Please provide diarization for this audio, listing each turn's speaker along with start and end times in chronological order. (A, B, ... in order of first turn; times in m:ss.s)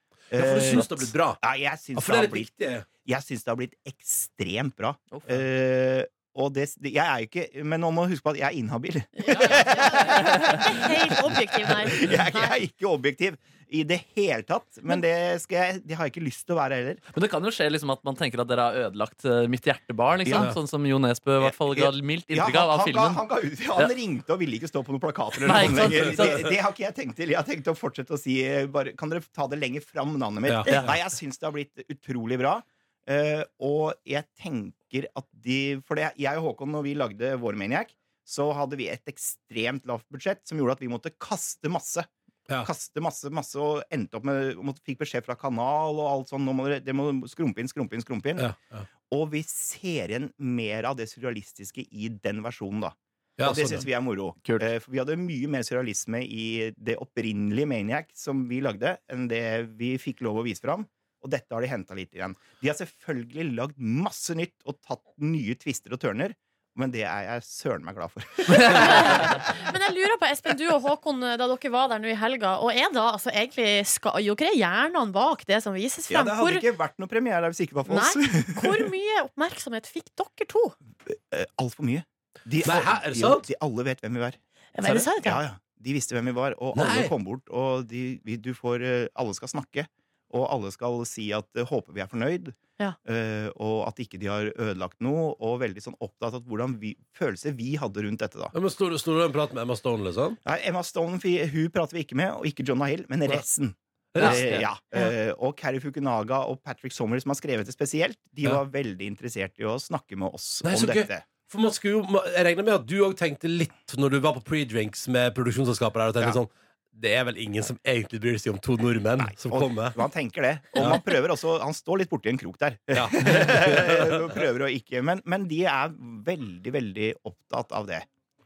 0:00.3-0:02.5 A
0:00.3-0:01.4 B
0:01.9-0:02.9 B
0:03.0-0:17.0 A
0:09.2-0:12.6 C
0:17.1-0:23.2 D
0:20.2-0:20.5 A
0:20.3-0:20.6 B
0:21.4-0:42.1 A
0:25.4-0:26.5 D
0:25.5-0:26.4 B
0:30.5-0:30.8 B
0:30.7-0:31.0 D
0:42.6-0:48.5 A
0:48.4-0:48.9 B
0:49.1-1:09.4 A
0:53.4-0:53.8 B
1:08.5-1:16.6 C
1:16.1-1:18.9 A
1:17.9-1:20.7 C
1:21.0-1:24.4 A
1:22.6-1:23.5 B
1:24.8-1:25.4 C
1:25.1-1:38.5 A
1:26.7-1:27.1 B
1:38.5-1:40.4 B
1:40.4-1:51.3 A
1:44.1-1:44.6 B
1:44.2-1:44.6 D
1:50.6-2:00.0 B
1:59.2-2:08.1 A
2:00.8-2:01.0 B
2:02.9-2:04.4 B